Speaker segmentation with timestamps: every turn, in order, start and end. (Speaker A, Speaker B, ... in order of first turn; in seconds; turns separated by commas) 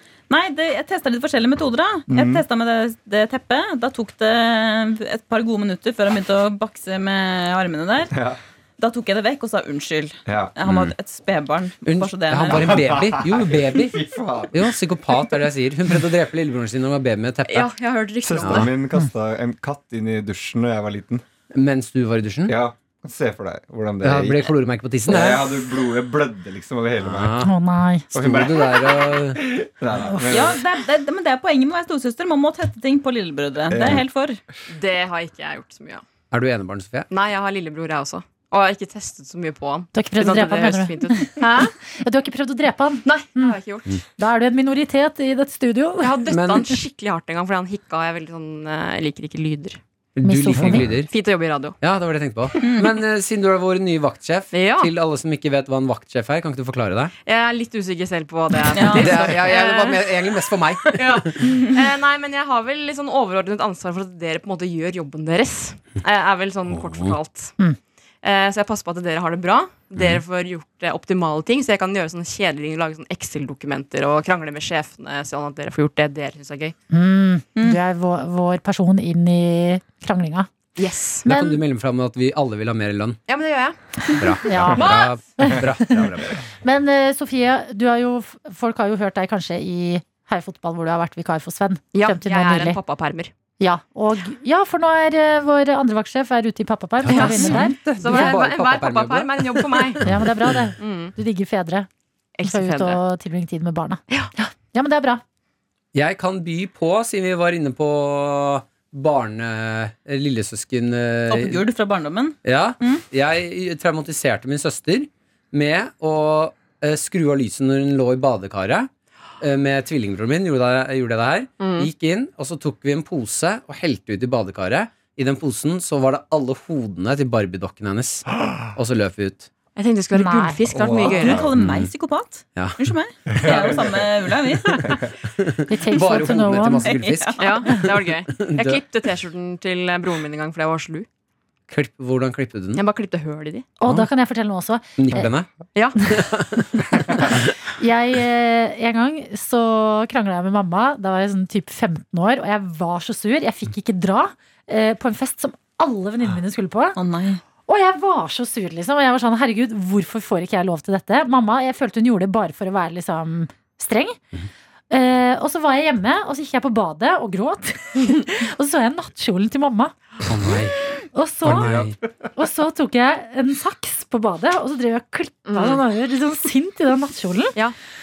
Speaker A: 0.3-8.1, Speaker B: 2.1-2.4, Speaker B: 8.1-8.4, Speaker A: 8.8-12.8, Speaker B: 10.2-10.5, Speaker C: 10.6-10.9, Speaker C: 11.8-14.0, Speaker B: 12.5-14.7, Speaker C: 14.5-17.7, Speaker D: 17.4-18.7, Speaker B: 18.2-21.2, Speaker C: 21.5-22.5, Speaker B: 22.5-24.5, Speaker C: 24.0-25.6, Speaker B: 25.1-27.3, Speaker C: 27.0-27.5, Speaker E: 27.4-28.1, Speaker C: 28.1-29.4, Speaker B: 28.1-30.6, Speaker A: 30.3-34.4, Speaker B: 33.7-34.0, Speaker D: 34.7-36.0, Speaker C: 36.3-37.1, Speaker D: 37.1-41.7, Speaker E: 39.9-43.6, Speaker D: 43.0-43.9, Speaker E: 44.2-46.2, Speaker D: 46.0-49.8, Speaker C: 46.3-46.7, Speaker C: 50.2-51.1, Speaker E: 50.2-50.9, Speaker D: 51.1-51.8, Speaker C: 51.8-57.1, Speaker D: 52.5-52.8, Speaker A: 52.6-52.9, Speaker D: 54.5-54.9, Speaker D: 57.2-67.5, Speaker A: 58.7-59.3, Speaker C: 58.9-61.4, Speaker C: 66.7-67.2, Speaker D: 68.2-76.7, Speaker C: 69.9-70.2, Speaker E: 76.9-80.5, Speaker D: 80.8-81.2, Speaker E: 81.2-81.6, Speaker C: 81.2-83.2, Speaker D: 83.3-85.1, Speaker C: 84.2-86.3, Speaker E: 84.5-92.8, Speaker D: 91.9-93.3, Speaker E: 93.6-98.3, Speaker C: 97.0-100.1, Speaker D: 97.1-100.1, Speaker E: 100.0-101.9, Speaker D: 100.8-101.1, Speaker D: 102.4-103.0, Speaker E: 102.4-105.2, Speaker C: 105.9-111.6, Speaker A: 111.3-113.0, Speaker C: 112.4-118.9, Speaker C: 119.4-129.5, Speaker D: 121.6-121.9, Speaker D: 129.8-131.4, Speaker E: 130.1-130.6, Speaker B: 130.7-131.5, Speaker A: 131.1-135.0, Speaker C: 131.5-131.9, Speaker C: 132.6-132.9, Speaker B: 133.3-134.0, Speaker C: 135.3-138.8, Speaker E: 135.7-136.9, Speaker A: 136.8-137.7, Speaker D: 137.4-141.1, Speaker C: 141.7-142.8, Speaker D: 142.7-143.7, Speaker E: 143.8-145.2, Speaker C: 145.0-145.5, Speaker D: 145.7-146.0, Speaker C: 146.0-147.5, Speaker E: 147.7-157.0, Speaker A: 156.9-157.4, Speaker E: 157.7-164.2, Speaker E: 164.9-169.9, Speaker C: 170.2-170.8, Speaker E: 171.1-171.7, Speaker C: 171.4-171.9, Speaker B: 171.5-171.9, Speaker E: 172.3-177.6, Speaker D: 175.4-175.8